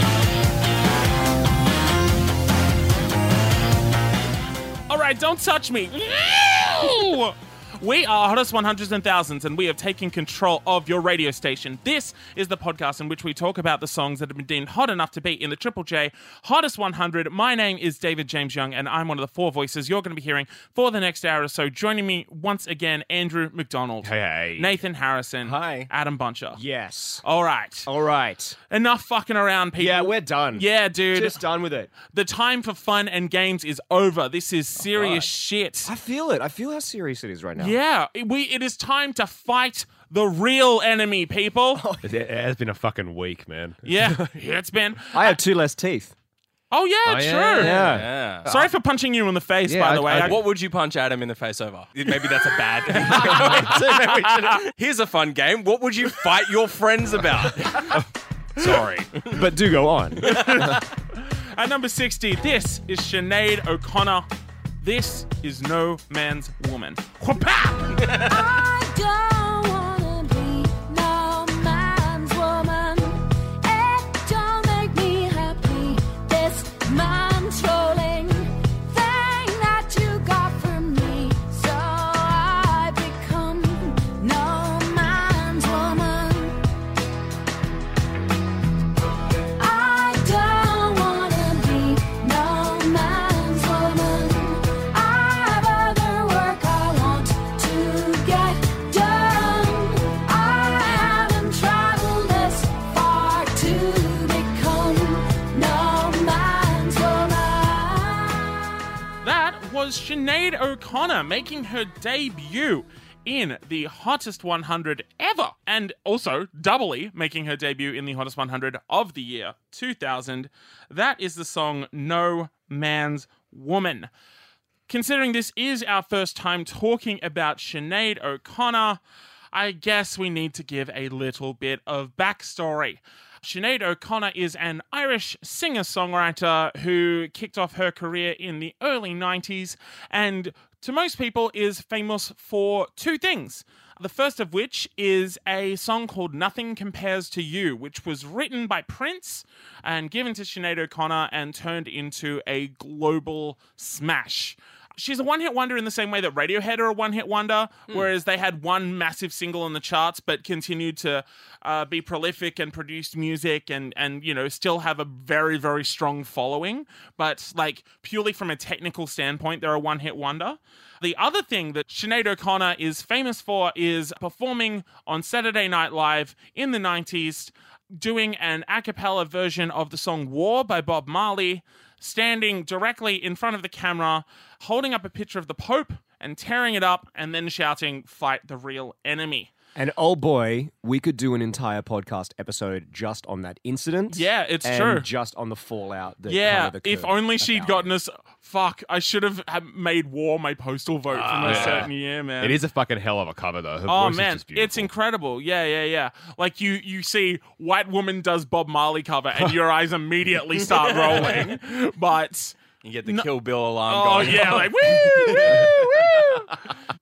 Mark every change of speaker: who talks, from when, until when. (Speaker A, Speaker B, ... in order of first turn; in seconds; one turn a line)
Speaker A: 4.9-26.6
Speaker B: 24.0-24.8
Speaker C: 25.4-25.9
Speaker D: 26.5-27.2
Speaker A: 27.2-27.9
Speaker D: 27.9-28.6
Speaker A: 28.7-31.4
Speaker D: 29.8-31.9
Speaker A: 32.0-35.9
Speaker C: 34.9-35.3
Speaker D: 35.9-37.8
Speaker A: 37.6-41.8
Speaker D: 41.7-42.2
Speaker B: 42.0-44.3
Speaker A: 43.9-45.4
Speaker D: 45.1-46.1
Speaker A: 46.7-47.8
Speaker B: 47.0-48.7
Speaker D: 47.6-48.1
Speaker C: 47.7-48.5
Speaker A: 48.5-50.4
Speaker B: 49.6-50.4
Speaker C: 50.1-58.0
Speaker A: 53.0-54.5
Speaker D: 58.6-60.6
Speaker A: 60.2-64.3
Speaker A: 64.8-68.2
Speaker E: 68.1-86.6
Speaker E: 89.6-108.6
Speaker A: 109.2-124.1
Speaker A: 124.9-129.0
Speaker A: 129.5-189.5
Speaker D: 189.8-197.9
Speaker A: 194.1-195.1
Speaker A: 196.3-202.6
Speaker C: 201.1-201.9
Speaker B: 201.4-204.9
Speaker A: 203.9-213.3
Speaker C: 210.7-211.5
Speaker C: 212.8-216.4
Speaker A: 213.9-216.6